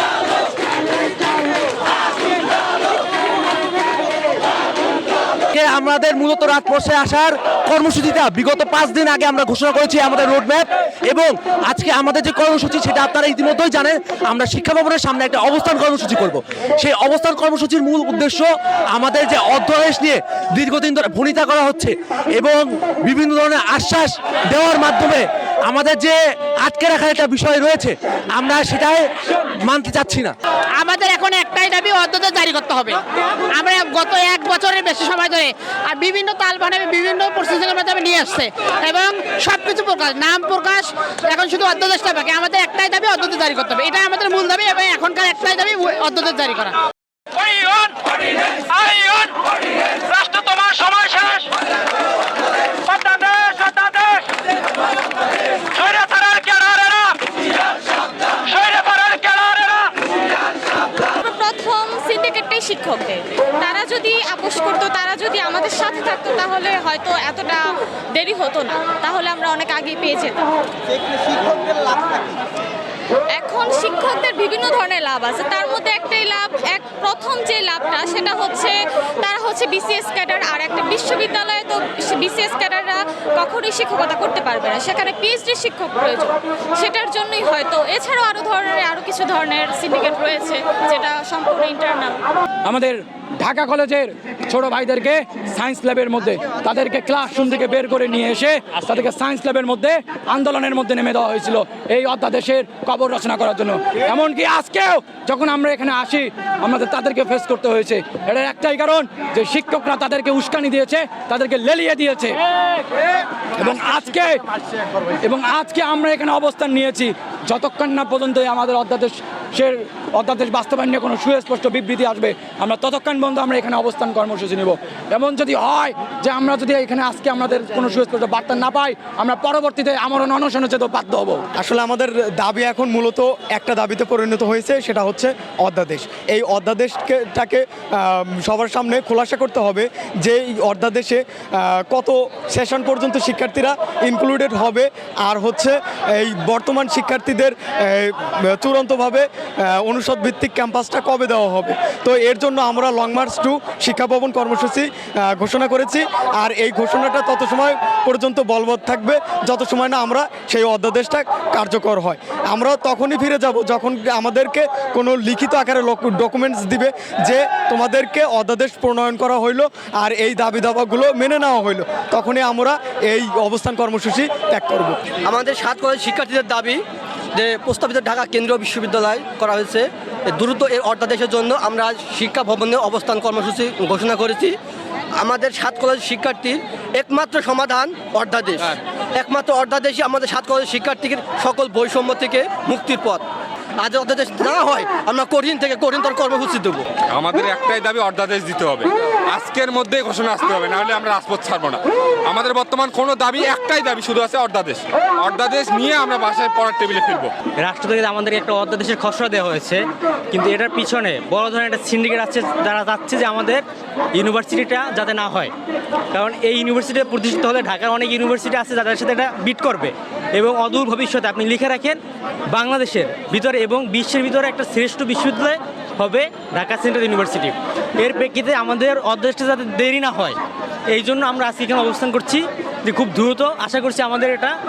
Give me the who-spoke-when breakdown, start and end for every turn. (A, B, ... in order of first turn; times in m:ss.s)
0:05.5-0:29.0 A
0:29.6-0:30.3 A
0:30.8-0:33.0 B
0:33.6-0:46.7 B
0:48.8-0:49.3 C
0:50.2-0:51.4 C
0:53.1-0:53.5 C
0:55.9-0:56.8 C
0:58.8-0:59.7 C
1:01.2-1:07.6 D
1:08.1-1:10.5 D
1:13.3-1:32.2 D
1:32.6-1:52.4 E
1:53.6-1:54.4 E
1:55.2-2:11.4 E
2:11.6-2:55.0 F
2:55.3-2:56.8 G
2:57.3-3:04.6 G
3:05.2-3:13.2 G
3:13.8-3:16.9 G
3:17.1-3:27.3 H
3:27.6-3:33.6 I
3:34.2-3:35.5 I
3:36.1-3:42.0 I
3:42.5-3:50.4 I
3:50.9-3:54.5 I